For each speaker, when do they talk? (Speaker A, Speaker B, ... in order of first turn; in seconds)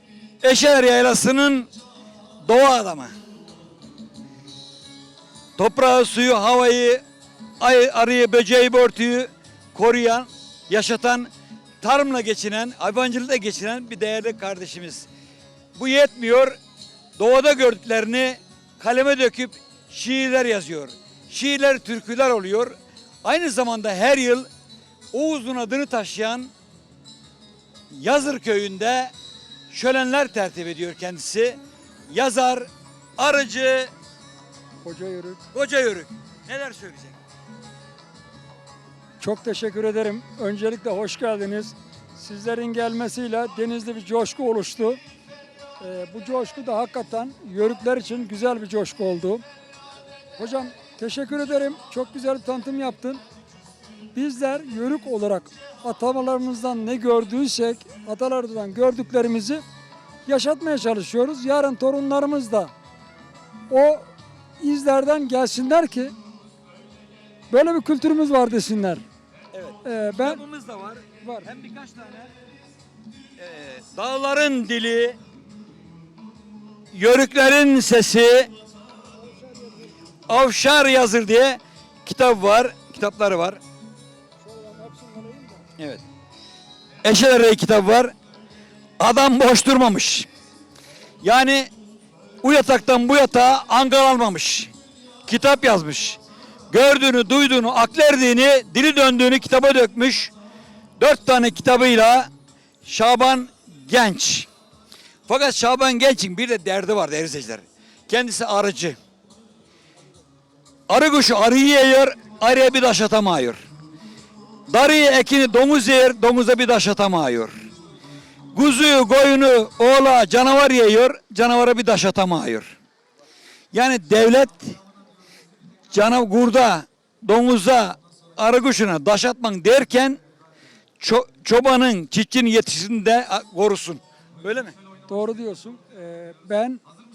Speaker A: 0.4-1.7, 2.4-3.1, 5.6-7.0, 7.6-11.3, 11.8-15.1, 15.8-16.6, 17.2-24.5, 25.1-26.5, 27.9-29.1, 29.7-31.6, 32.1-33.9, 35.5-37.1, 69.5-72.3, 73.4-75.2, 76.9-78.5, 80.3-83.6, 85.8-86.0, 87.0-88.1, 89.0-90.3, 91.2-91.7, 92.4-94.7, 95.3-96.2, 96.7-100.3, 101.0-102.3, 102.8-104.5, 105.3-109.0, 110.9-113.6, 114.7-117.5, 118.5-122.7, 123.7-124.8, 125.9-130.2, 131.0-134.7
Speaker B: 34.8-35.4, 39.2-45.0, 45.8-49.4, 50.4-53.2, 54.1-59.6, 60.2-62.7, 63.7-64.1, 64.6-66.1, 67.5-69.0, 69.8-70.4, 71.2-71.5, 79.3-79.8, 84.4-85.6, 135.1-136.8